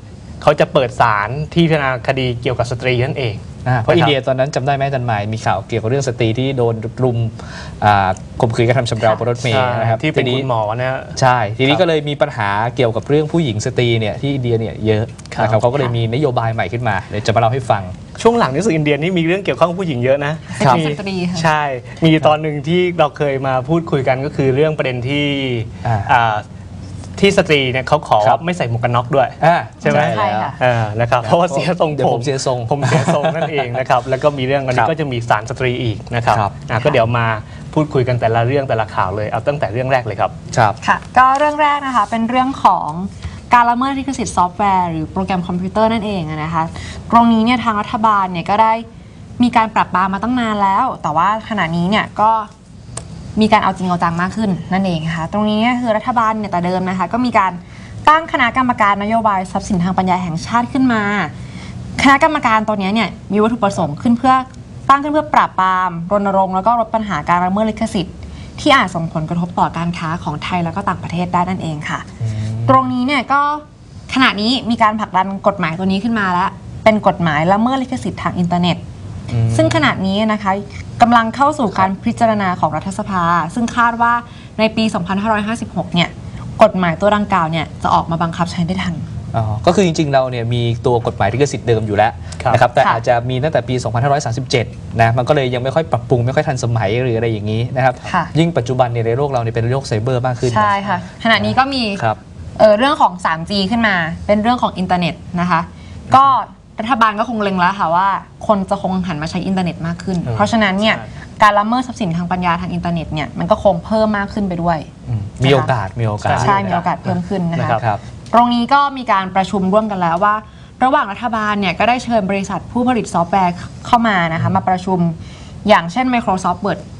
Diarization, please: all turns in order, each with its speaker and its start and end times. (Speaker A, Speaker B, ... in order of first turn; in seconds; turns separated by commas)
Speaker A: 0.4-4.1, Speaker B: 3.6-10.5, Speaker A: 9.4-11.8, Speaker B: 11.2-17.9, Speaker A: 15.3-15.6, Speaker A: 18.2-26.4, Speaker C: 20.5-21.5, Speaker B: 20.6-20.9, Speaker B: 25.8-26.1, Speaker A: 27.2-40.3, Speaker B: 29.4-30.5, Speaker C: 29.8-30.6, Speaker B: 31.2-33.7, Speaker B: 36.3-36.5, Speaker B: 40.5-40.8, Speaker C: 40.8-48.8, Speaker C: 49.4-52.5, Speaker C: 53.4-61.3, Speaker C: 62.0-72.1, Speaker B: 72.2-72.9, Speaker C: 72.6-78.8, Speaker B: 79.3-79.9, Speaker C: 79.5-89.1, Speaker B: 89.3-100.8, Speaker C: 92.8-93.0, Speaker C: 98.0-98.3, Speaker C: 100.5-102.0, Speaker B: 101.3-102.2, Speaker C: 102.5-114.9, Speaker A: 110.2-111.0, Speaker B: 115.0-116.8, Speaker C: 115.4-115.7, Speaker A: 116.2-117.0, Speaker C: 116.4-126.8, Speaker A: 117.5-117.8, Speaker B: 117.7-118.0